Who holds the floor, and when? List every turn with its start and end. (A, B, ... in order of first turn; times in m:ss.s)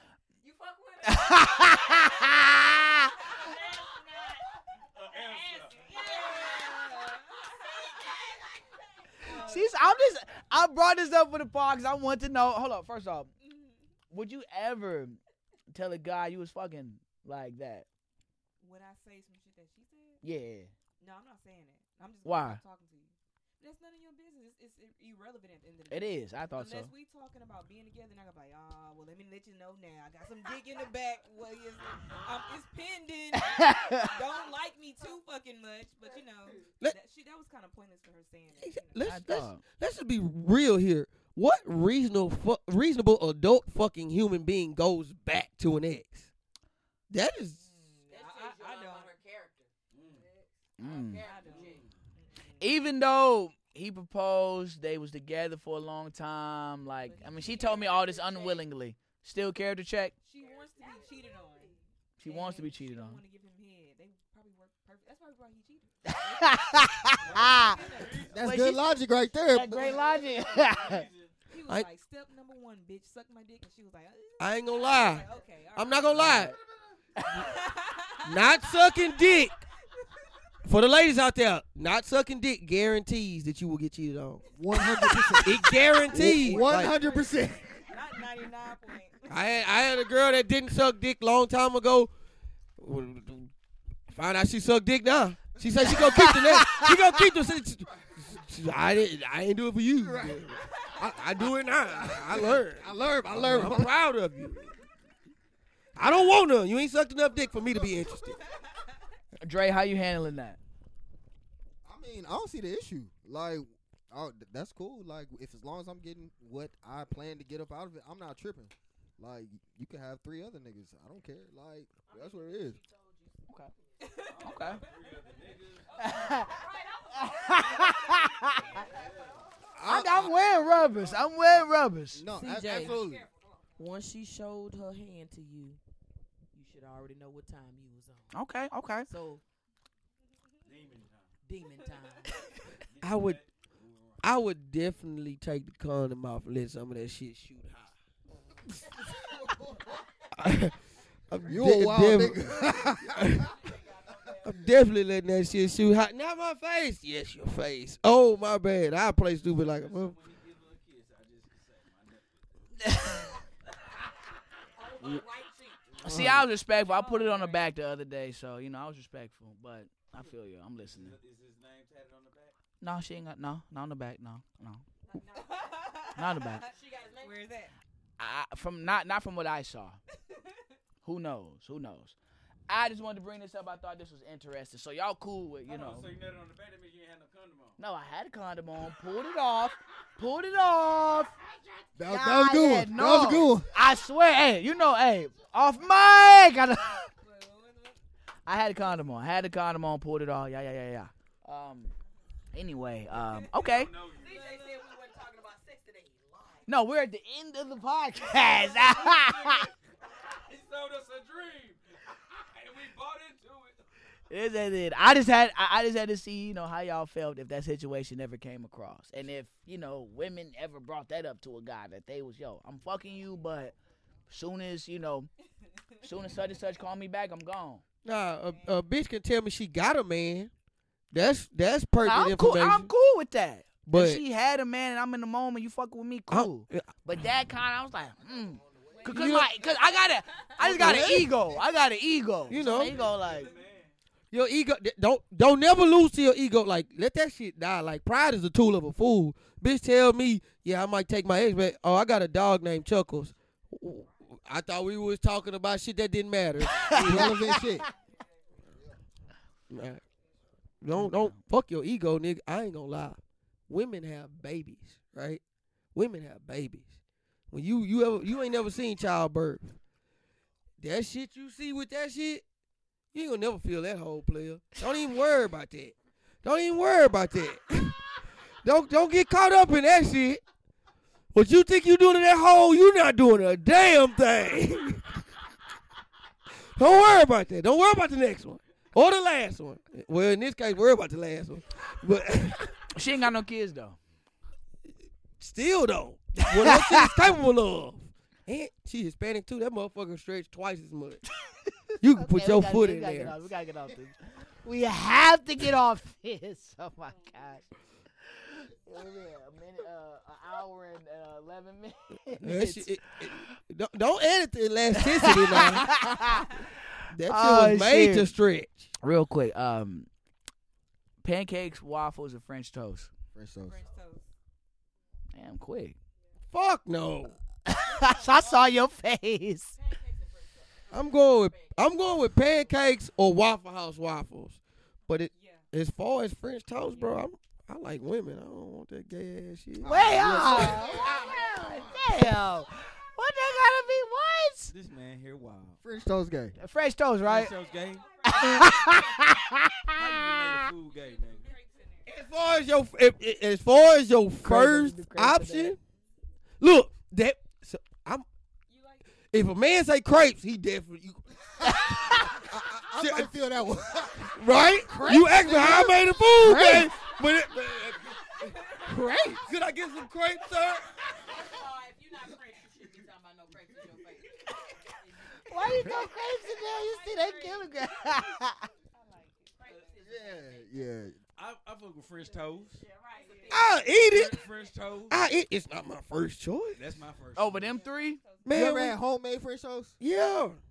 0:00.4-0:02.3 A
0:01.0-0:03.1 B
0:03.4-0:04.2 A
0:03.5-0:03.8 C
0:04.9-0:06.0 D
0:05.2-0:06.6 A
0:05.7-0:07.9 E
0:05.8-0:06.9 C
0:09.2-0:09.7 E
0:09.2-0:13.3 B
0:13.4-0:13.8 E
0:14.1-0:15.2 B
0:15.7-0:17.8 B
0:18.6-0:20.2 E
0:20.2-0:20.7 B
0:21.0-0:39.1 E
0:22.2-0:22.6 B
0:25.9-0:26.9 B
0:33.4-0:34.1 B
0:38.6-0:46.3 F
0:39.0-0:39.6 B
0:47.1-0:47.6 F
0:47.5-0:49.1 E
0:48.1-0:49.7 C
0:49.9-0:50.2 D
0:50.8-0:51.2 B
0:50.8-0:51.8 C
0:51.2-0:52.7 E
0:51.4-0:51.9 D
0:52.6-1:00.1 B
0:57.0-0:58.6 E
0:57.8-0:58.6 C
1:00.2-1:08.4 E
1:00.5-1:01.0 C
1:02.2-1:03.2 B
1:06.1-1:07.7 B
1:07.1-1:08.4 D
1:08.3-1:10.0 G
1:08.4-1:08.9 B
1:09.5-1:11.0 B
1:09.7-1:11.4 D
1:11.5-1:16.4 E
1:14.4-1:16.5 F
1:16.1-1:16.6 B
1:17.2-1:17.4 B
1:17.3-1:19.5 E
1:18.2-1:19.5 F
1:20.6-1:24.4 F
1:24.6-1:27.8 G
1:24.7-1:29.5 E
1:25.4-1:26.9 F
1:29.3-1:32.1 F
1:32.8-1:33.5 F
1:34.1-1:44.7 F
1:36.0-1:36.9 B
1:40.0-1:40.5 G
1:41.8-1:43.9 G
1:46.0-1:48.4 F
1:49.4-1:50.6 B
1:51.8-2:02.8 G
2:02.1-2:04.3 C
2:04.0-2:05.3 E
2:04.3-2:06.0 D
2:04.4-2:04.8 B
2:05.9-2:09.0 E
2:06.0-2:06.5 B
2:06.5-2:07.5 C
2:07.1-2:08.6 B
2:07.5-2:09.4 D
2:09.8-2:10.4 G
2:09.8-2:12.2 B
2:10.7-2:11.3 D
2:11.5-2:13.2 G
2:12.3-2:13.2 C
2:13.0-2:13.7 A
2:13.8-2:15.8 C
2:16.5-2:18.3 C
2:18.3-2:19.1 B
2:19.1-2:19.4 C
2:20.6-2:21.3 D
2:21.4-2:22.4 C
2:21.8-2:22.2 E
2:22.9-2:24.2 D
2:23.0-2:23.4 F
2:24.2-2:27.9 F
2:29.4-2:29.8 G
2:30.3-2:30.8 F
2:31.3-2:33.6 F
2:31.4-2:33.5 G
2:33.3-2:34.6 C
2:34.4-2:40.2 F
2:39.5-2:42.4 D
2:42.8-2:43.3 B
2:44.8-2:45.9 C
2:46.0-2:51.1 B
2:46.1-2:46.4 G
2:46.1-2:46.4 F
2:46.7-2:47.7 E
2:50.8-2:52.5 D
2:52.8-2:54.8 B
2:55.1-2:55.7 C
2:55.3-2:57.7 E
2:56.2-2:56.6 B
2:56.6-2:57.5 C
2:58.2-3:00.0 B
3:01.0-3:02.1 B
3:02.7-3:06.1 B
3:05.7-3:07.8 D
3:07.8-3:11.3 B
3:12.0-3:13.7 G
3:12.1-3:17.0 B
3:17.2-3:18.0 E
3:18.4-3:21.9 B
3:22.5-3:23.9 B
3:23.5-3:24.5 D
3:24.2-3:26.7 C
3:24.2-3:24.9 E
3:26.7-3:29.7 B
3:28.6-3:33.8 D
3:34.3-3:43.7 B
3:44.3-3:45.3 B
3:46.0-3:47.8 B
3:48.0-3:50.5 F
3:48.4-3:48.8 E
3:51.1-3:52.9 F
3:52.0-4:03.5 B
3:53.8-3:54.2 F
3:56.3-3:56.9 F
3:58.2-3:59.3 G
3:58.9-4:00.0 E
3:59.1-3:59.5 F
4:00.6-4:01.3 F
4:02.5-4:03.0 F
4:02.8-4:03.9 D
4:04.3-4:17.4 F
4:16.6-4:17.9 B
4:16.9-4:17.9 G
4:19.7-4:20.0 F
4:20.8-4:25.4 F
4:20.9-4:21.4 B
4:25.9-4:26.9 F
4:27.5-4:29.8 F
4:30.8-4:32.4 F
4:33.1-4:38.0 F
4:38.6-4:40.4 F
4:41.3-4:45.2 F
4:46.7-4:52.7 F
4:52.9-4:54.0 B
4:55.4-5:01.2 F
4:56.4-4:57.2 B
5:02.0-5:03.5 F
5:02.1-5:07.6 B
5:08.5-5:12.9 B
5:12.4-5:16.0 F
5:15.0-5:18.3 B
5:17.1-5:18.9 F
5:19.0-5:20.1 B
5:21.2-5:23.1 B
5:23.3-5:23.8 G
5:23.6-5:24.3 E
5:25.3-5:26.0 B
5:26.5-5:27.4 F
5:27.7-5:29.8 B
5:27.8-5:28.8 C
5:29.7-5:32.7 C
5:30.9-5:40.9 F
5:35.3-5:35.6 E
5:36.9-5:37.2 E
5:39.8-5:44.7 B
5:39.8-5:42.2 G
5:40.8-5:41.7 C
5:44.7-5:45.8 D
5:45.8-5:46.6 G
5:46.6-5:47.5 B
5:47.2-5:48.1 D
5:47.6-5:49.3 E
5:48.2-5:50.0 B
5:49.9-5:51.5 D
5:50.8-5:52.1 E
5:52.0-5:55.8 F
5:54.4-5:55.7 B
5:56.6-5:58.2 F
5:58.7-5:59.0 E
5:59.3-6:03.3 F
6:01.7-6:06.9 G
6:01.7-6:02.3 B
6:04.3-6:08.5 F
6:08.4-6:08.9 E
6:08.9-6:09.3 B
6:09.2-6:10.9 F
6:11.1-6:17.6 C
6:15.4-6:18.6 B
6:15.8-6:16.0 G
6:16.9-6:17.6 E
6:18.9-6:19.9 E
6:19.6-6:20.9 C
6:20.0-6:21.2 G
6:21.4-6:22.8 D
6:22.8-6:23.8 C
6:23.1-6:23.7 E
6:23.5-6:24.4 F
6:24.0-6:25.2 D
6:25.1-6:26.8 F
6:26.7-6:27.8 D
6:27.4-6:28.2 B
6:27.6-6:28.5 E
6:28.4-6:29.0 F
6:28.5-6:30.0 G
6:30.0-6:30.6 F